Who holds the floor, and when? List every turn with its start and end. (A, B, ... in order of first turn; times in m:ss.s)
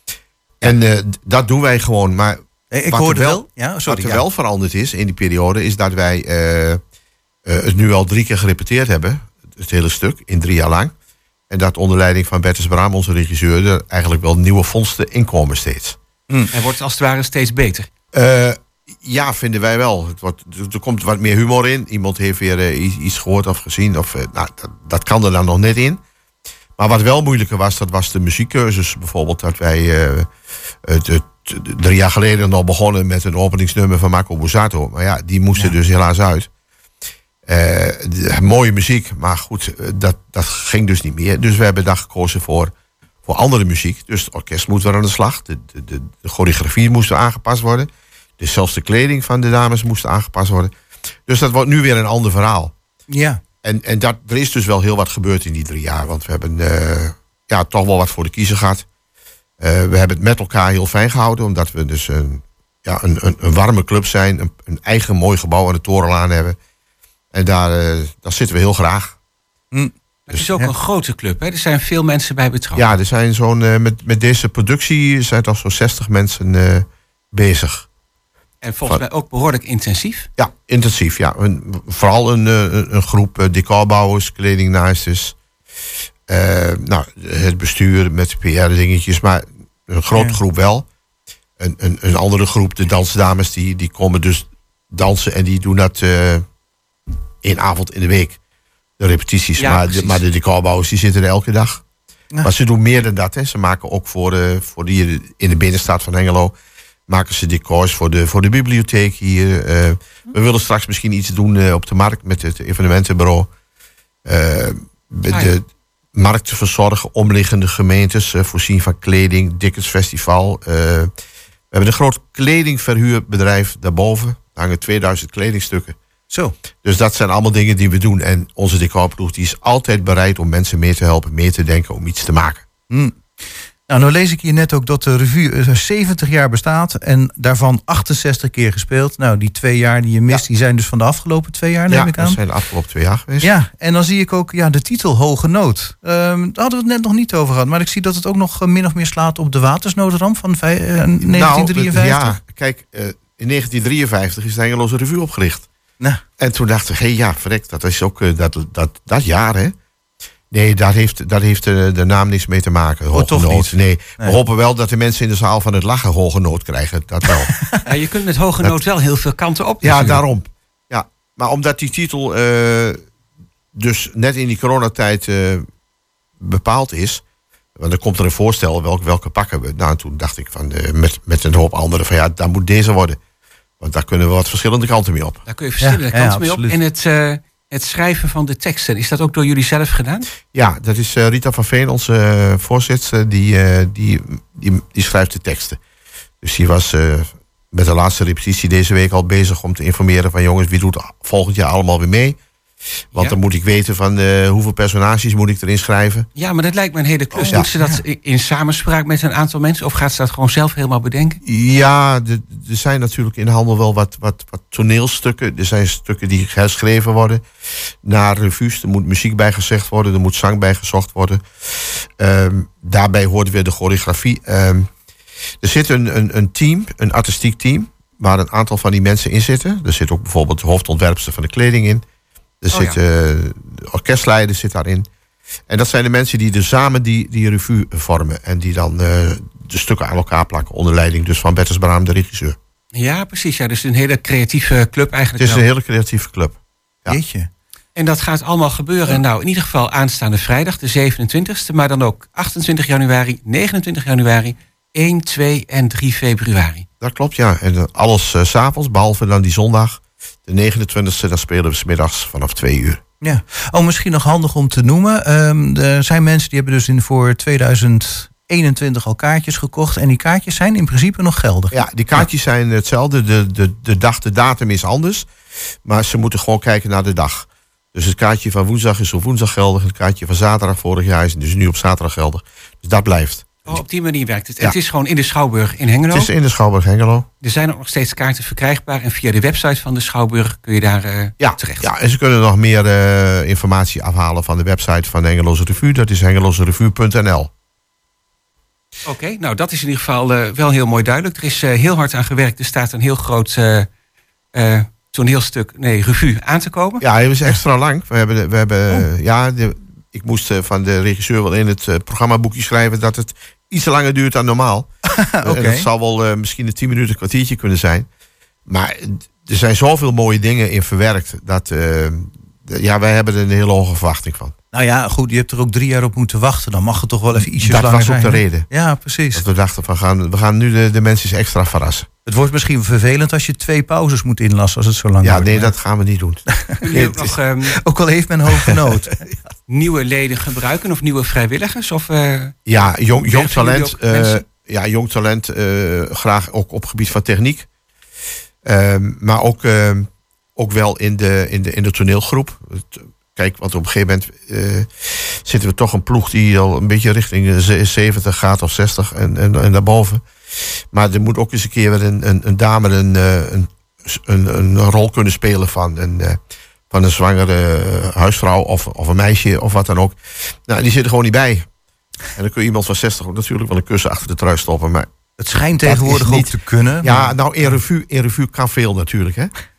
0:00.6-0:06.8 A
0:02.7-0:04.2 B
0:07.4-0:10.9 A
0:11.5-0:16.0 A
0:16.5-0:17.9 C
0:18.1-0:26.0 A
0:26.8-0:30.3 A
0:30.8-0:36.5 A
0:37.5-0:42.7 A
0:43.2-0:50.7 A
0:51.3-0:52.7 A
0:53.1-0:53.4 B
0:53.6-0:58.9 A
0:59.6-1:06.6 A
1:07.3-1:09.2 A
1:10.3-1:12.9 C
1:12.8-1:17.9 A
1:18.6-1:20.3 C
1:20.4-1:25.4 A
1:26.3-1:30.9 A
1:30.1-1:30.4 B
1:31.6-1:36.5 A
1:37.4-1:38.4 A
1:39.0-1:41.8 A
1:39.6-1:40.2 C
1:42.4-1:46.5 A
1:47.1-1:53.5 A
1:54.2-2:01.1 A
1:55.3-1:55.5 C
2:01.7-2:06.0 A
2:06.3-2:06.6 B
2:06.8-2:12.6 A
2:12.9-2:22.4 B
2:21.9-2:23.5 A
2:23.4-2:32.4 B
2:31.2-2:35.7 A
2:36.4-2:39.8 A
2:40.5-2:47.5 A
2:43.1-2:44.4 B
2:47.8-2:50.2 C
2:49.8-2:53.0 A
2:53.7-2:55.7 A
2:56.4-2:57.2 A
2:57.8-3:03.2 A
3:03.8-3:05.4 A
3:05.5-3:10.3 C
3:05.8-3:06.8 B
3:10.5-3:15.8 A
3:16.4-3:22.4 A
3:23.1-3:26.3 A
3:26.4-3:31.4 C
3:27.4-3:28.0 B
3:31.4-3:37.4 A
3:38.0-3:44.9 A
3:45.6-3:52.0 A
3:52.6-3:55.1 A
3:52.7-3:53.0 C
3:55.7-4:02.6 A
4:02.9-4:05.6 C
4:05.4-4:07.2 A
4:07.1-4:07.5 B
4:08.0-4:16.9 C
4:17.0-4:23.0 A
4:23.2-4:32.3 B
4:31.7-4:35.3 A
4:35.8-4:43.8 A
4:43.7-4:46.3 C
4:46.1-4:47.3 A
4:47.4-4:51.9 C
4:51.4-4:57.5 A
4:59.0-5:03.9 C
5:04.5-5:07.0 C
5:07.0-5:14.9 A
5:15.2-5:15.9 B
5:15.4-5:18.1 A
5:18.7-5:24.6 A
5:24.7-5:29.4 B
5:27.3-5:28.7 A
5:29.3-5:32.1 A
5:32.3-5:35.7 B
5:35.2-5:37.3 A
5:36.6-5:39.3 B
5:36.8-5:37.8 C
5:39.7-5:42.6 C
5:42.7-5:47.7 A
5:43.2-5:44.4 C
5:48.6-6:06.4 A
6:06.9-6:11.7 A
6:12.3-6:15.1 A
6:15.4-6:17.8 B
6:15.8-6:19.5 A